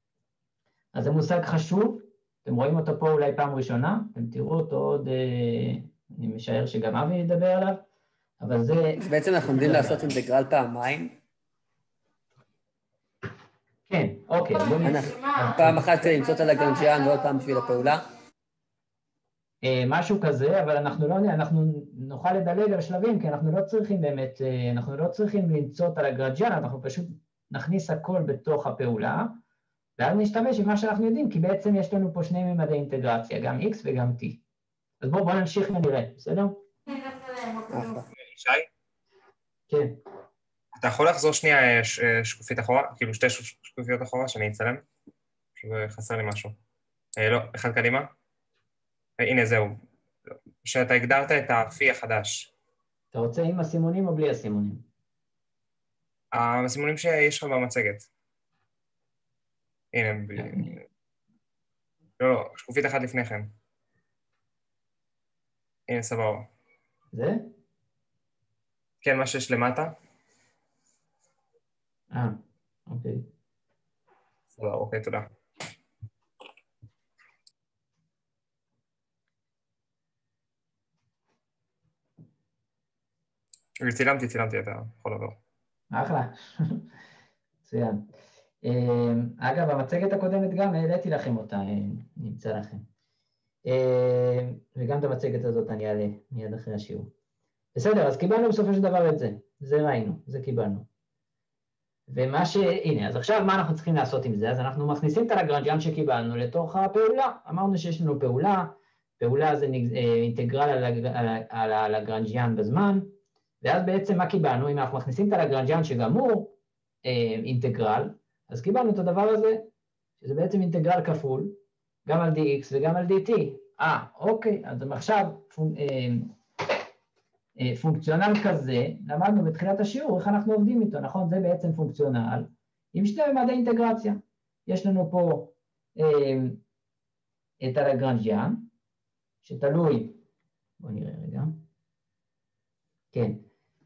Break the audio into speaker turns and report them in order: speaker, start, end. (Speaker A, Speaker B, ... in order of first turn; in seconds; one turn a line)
Speaker A: 0.9-7.8
Speaker A: 8.4-10.2
Speaker B: 9.0-11.1
Speaker A: 13.9-15.9
Speaker B: 14.8-18.1
Speaker A: 19.6-29.4
Speaker A: 30.0-34.4
Speaker A: 35.0-36.6
Speaker B: 37.7-38.0
Speaker C: 38.3-38.7
Speaker A: 39.7-40.0
Speaker C: 40.8-44.8
Speaker C: 45.6-46.6
Speaker C: 47.2-48.1
Speaker C: 49.2-49.8
Speaker C: 50.6-52.5
Speaker A: 53.1-54.9
Speaker C: 56.3-58.1
Speaker C: 59.9-60.7
Speaker A: 60.4-60.7
Speaker C: 62.2-63.5
Speaker C: 65.9-66.5
Speaker A: 67.1-67.5
Speaker C: 69.0-70.0
Speaker A: 72.1-73.3
Speaker C: 74.5-75.3
Speaker C: 83.8-85.3
Speaker A: 85.9-86.8
Speaker A: 87.6-88.0
Speaker A: 88.6-92.8
Speaker A: 93.7-97.1
Speaker A: 97.7-100.8
Speaker A: 102.1-119.7
Speaker A: 120.2-126.3
Speaker A: 127.6-136.6
Speaker A: 137.6-138.7
Speaker A: 139.4-140.2
Speaker A: 140.8-141.6
Speaker A: 143.1-143.4